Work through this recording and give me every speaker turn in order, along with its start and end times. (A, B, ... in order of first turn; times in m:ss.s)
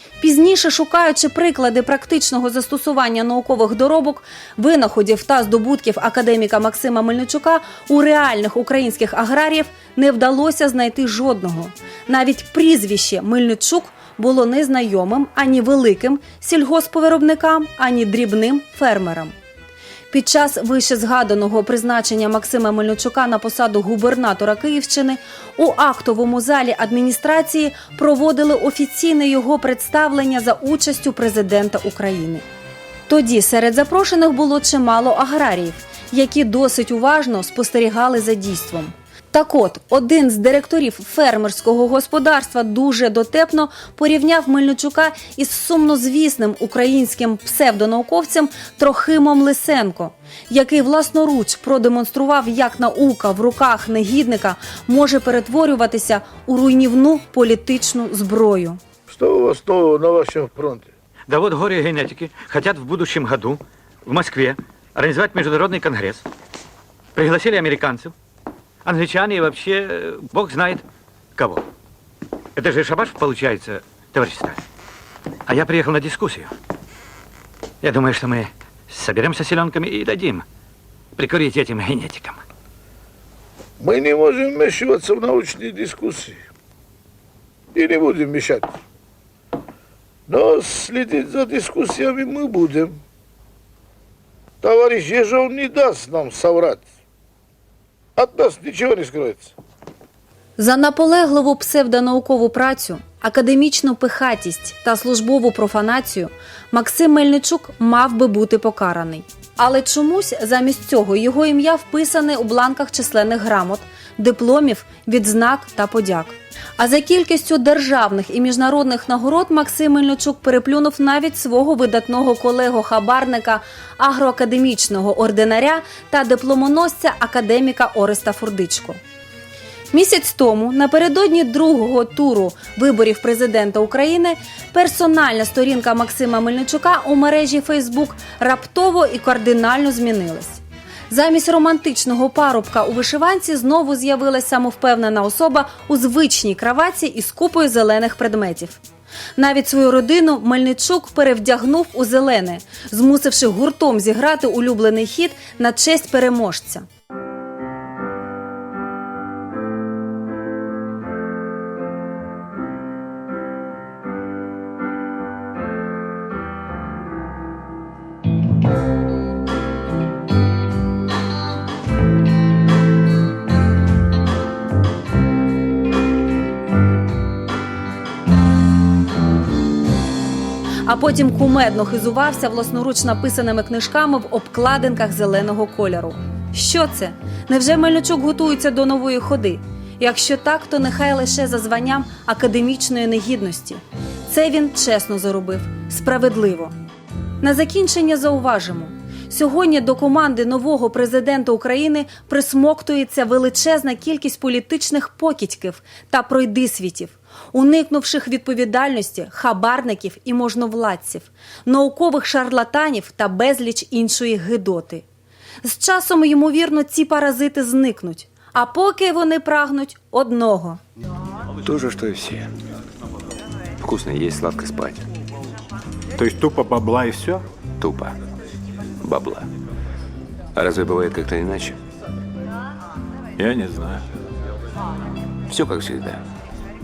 0:00.2-0:19.3 A
0:20.1-0:32.4 A
0:33.1-0:58.8 A
0:59.1-1:00.9 B
1:01.3-1:06.2 C
1:07.2-1:08.1 C
1:08.8-1:10.8 C
1:11.4-1:11.6 C
1:12.6-1:14.6 C
1:15.5-1:16.5 C
1:17.8-1:20.4 C
1:21.2-1:22.4 C
1:23.8-1:26.4 B
1:27.7-1:28.7 B
1:30.3-1:33.0 B
1:34.6-1:36.8 B
1:38.2-1:39.5 B
1:40.6-2:09.0 A
2:09.9-2:28.8 A
2:29.4-2:36.8 A
3:00.8-3:16.7 A
3:17.4-3:35.0 A
3:35.6-3:40.8 A
3:41.6-3:42.5 D
3:43.8-3:45.1 D
3:46.2-3:47.4 E
3:47.8-3:48.2 D
3:49.0-3:49.5 D
3:50.6-3:51.8 D
3:53.4-3:54.1 E
3:55.5-3:56.2 D